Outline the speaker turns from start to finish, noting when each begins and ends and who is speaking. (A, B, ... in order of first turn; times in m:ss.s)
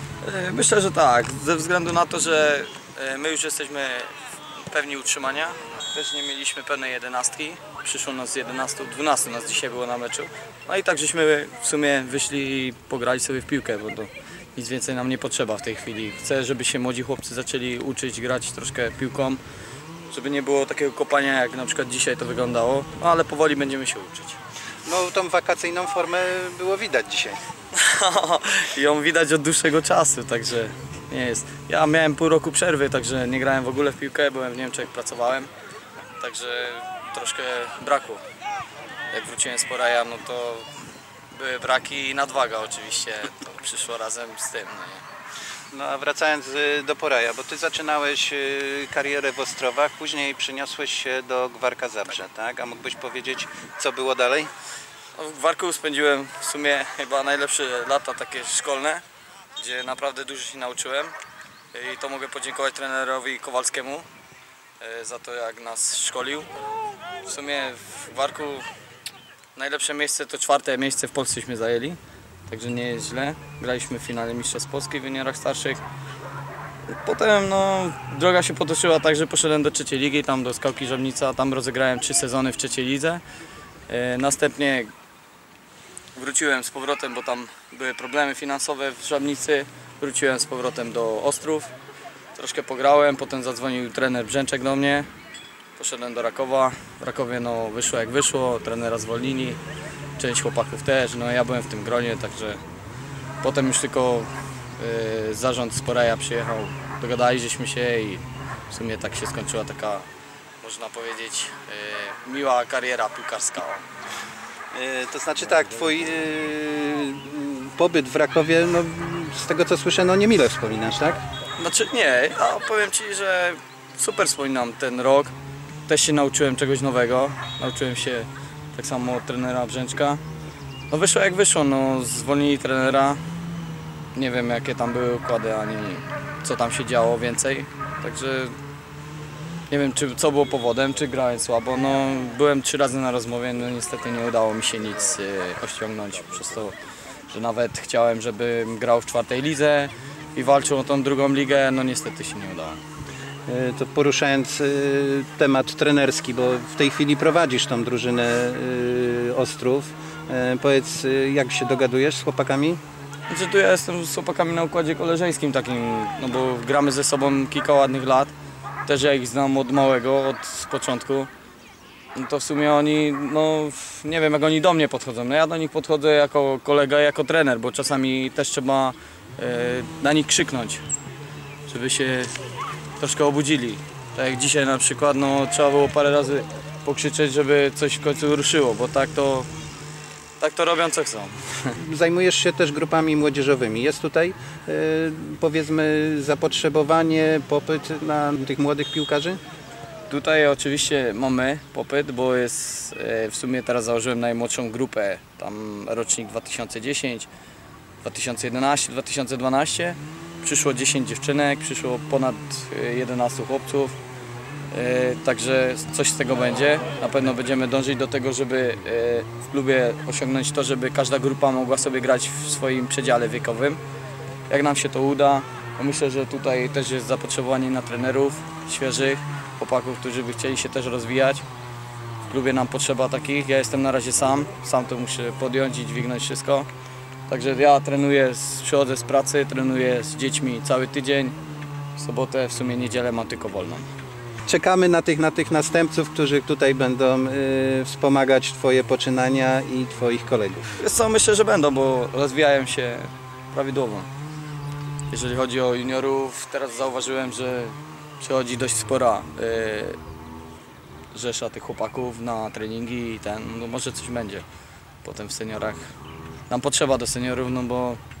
0:00.2-0:19.4 A
0:20.1-0:24.4 A
0:24.8-0:27.4 B
0:27.7-0:35.5 A
0:36.2-0:38.2 A
0:39.1-0:40.7 A
0:41.3-0:45.0 A
0:45.7-0:54.5 B
0:55.2-0:59.0 A
0:59.6-1:01.2 A
1:01.7-1:04.1 A
1:04.8-1:06.5 A
1:07.2-1:08.7 A
1:09.5-1:15.8 A
1:16.9-1:23.2 A
1:23.9-1:24.9 A
1:26.1-1:31.7 A
1:32.3-1:35.1 A
1:35.8-1:39.6 A
1:40.2-1:42.6 A
1:43.4-1:50.1 A
1:50.6-1:53.8 A
1:54.7-2:01.2 B
2:01.6-2:05.3 A
2:05.9-2:10.2 A
2:10.9-2:13.2 A
2:14.1-2:18.6 A
2:19.7-2:26.7 A
2:27.3-2:32.8 A
2:33.5-2:42.8 B
2:43.3-2:48.3 A
2:48.8-2:51.3 A
2:52.1-3:00.8 A
3:01.7-3:02.4 A
3:03.0-3:09.5 A
3:10.4-3:11.7 A
3:11.8-3:19.4 B
3:20.1-3:27.3 A
3:28.0-3:34.0 A
3:34.7-3:43.8 A
3:44.5-3:51.4 A
3:52.3-3:56.7 A
3:57.3-4:01.4 A
4:02.0-4:03.9 A
4:04.5-4:10.7 B
4:10.8-4:14.1 A
4:15.1-4:20.0 A
4:21.1-4:24.4 A
4:25.0-4:25.8 A
4:26.5-4:28.0 A